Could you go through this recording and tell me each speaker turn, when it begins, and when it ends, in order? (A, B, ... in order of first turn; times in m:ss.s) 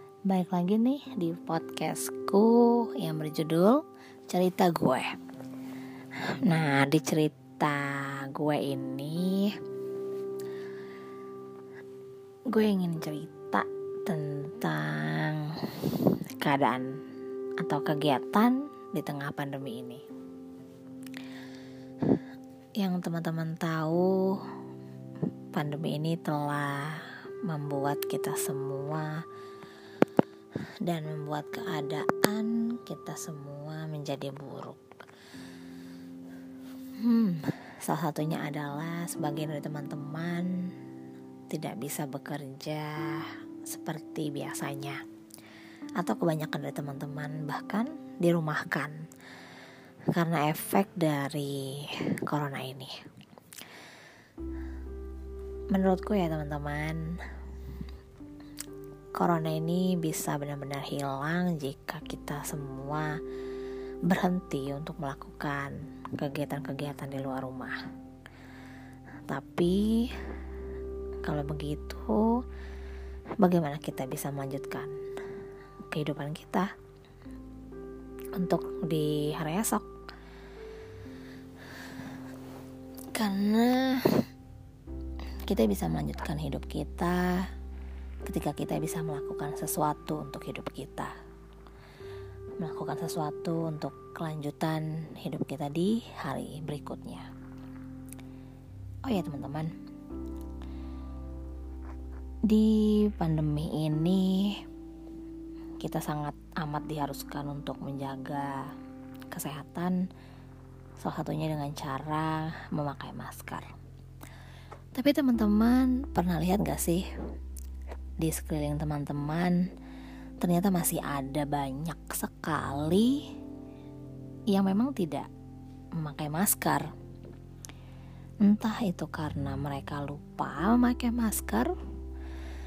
0:00.3-0:05.1 A
0:06.3-0:09.6 A
0:12.5-0:16.9 A
0:17.6-0:20.0 A
0:22.8-0:24.5 A
0:25.5-0:29.2 A
0:30.8-0:34.8 A
0:37.0-0:40.7 A
0:41.5-0:45.0 A
0:46.0-0:49.0 A
0:50.1-0:52.9 A
0:55.7-0:57.2 A
0:59.2-1:03.2 A
1:04.0-1:07.8 A
1:09.3-1:10.4 A
1:11.2-1:12.4 A
1:13.4-1:15.0 A
1:15.9-1:16.7 A
1:18.4-1:19.9 A
1:23.1-1:24.3 A
1:25.4-1:27.5 A
1:28.2-1:31.1 A
1:32.6-1:37.3 A
1:39.0-1:39.7 A
1:42.5-1:44.6 A
1:45.8-1:48.7 A
1:49.3-1:50.0 A
1:51.0-1:53.7 A
1:54.9-1:57.1 A
1:58.2-1:59.6 A
2:00.4-2:03.3 A
2:04.5-2:05.3 A
2:06.0-2:06.9 A
2:08.4-2:11.7 A